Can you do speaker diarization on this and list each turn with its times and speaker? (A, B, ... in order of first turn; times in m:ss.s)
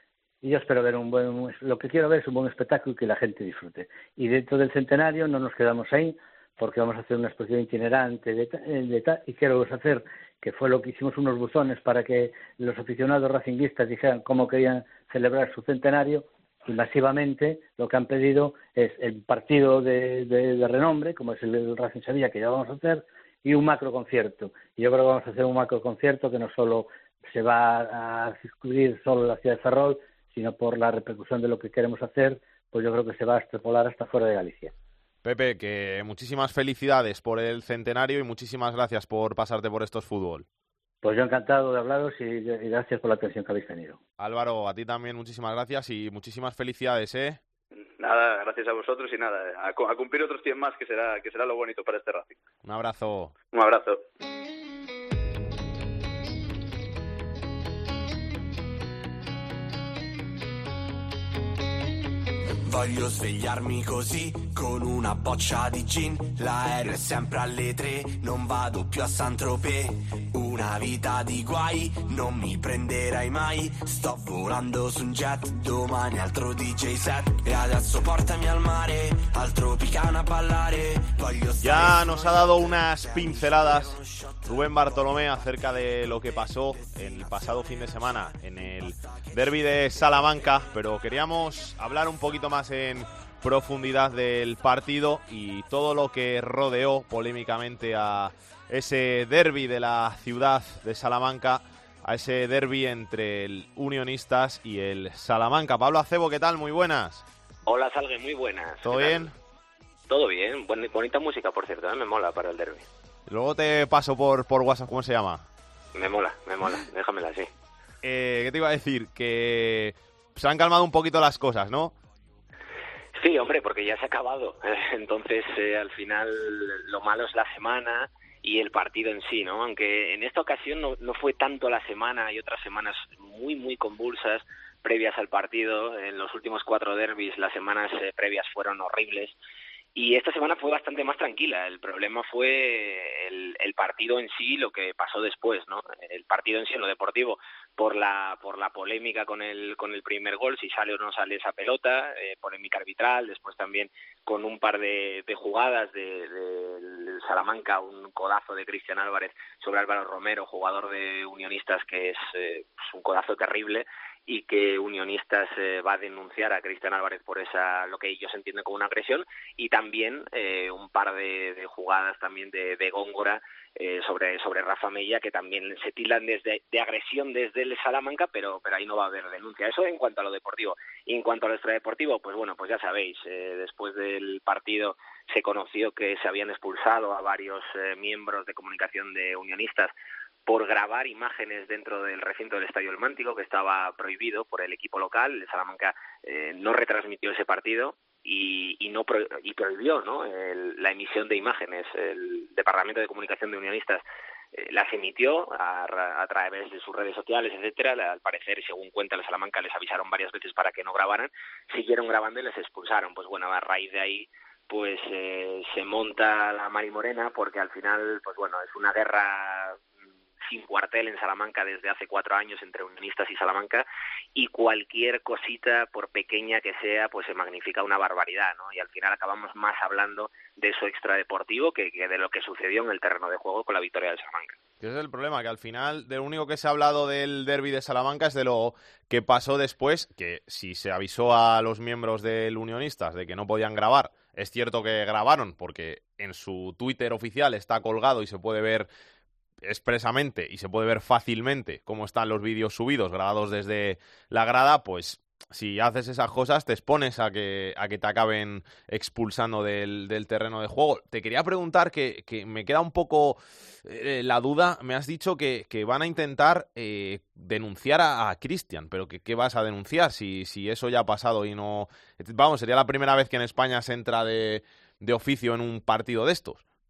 0:00.4-0:34.7 A
0:35.2-0:40.5 B
0:41.0-0:44.0 A
0:44.2-0:47.4 B
0:48.0-0:52.4 C
0:52.6-0:53.4 B
0:53.5-0:54.0 C
1:02.6-1:31.4 D
1:21.6-1:47.2 B
1:47.7-1:49.3 E
1:48.8-1:49.3 B
1:50.1-1:52.9 E
1:53.3-1:55.5 B
1:56.0-1:57.5 E
1:58.0-2:01.9 B
2:03.2-2:19.4 E
2:20.0-3:09.9 E
3:10.5-3:39.8 E
3:40.4-3:54.6 E
3:54.8-4:08.9 B
4:09.6-4:36.6 B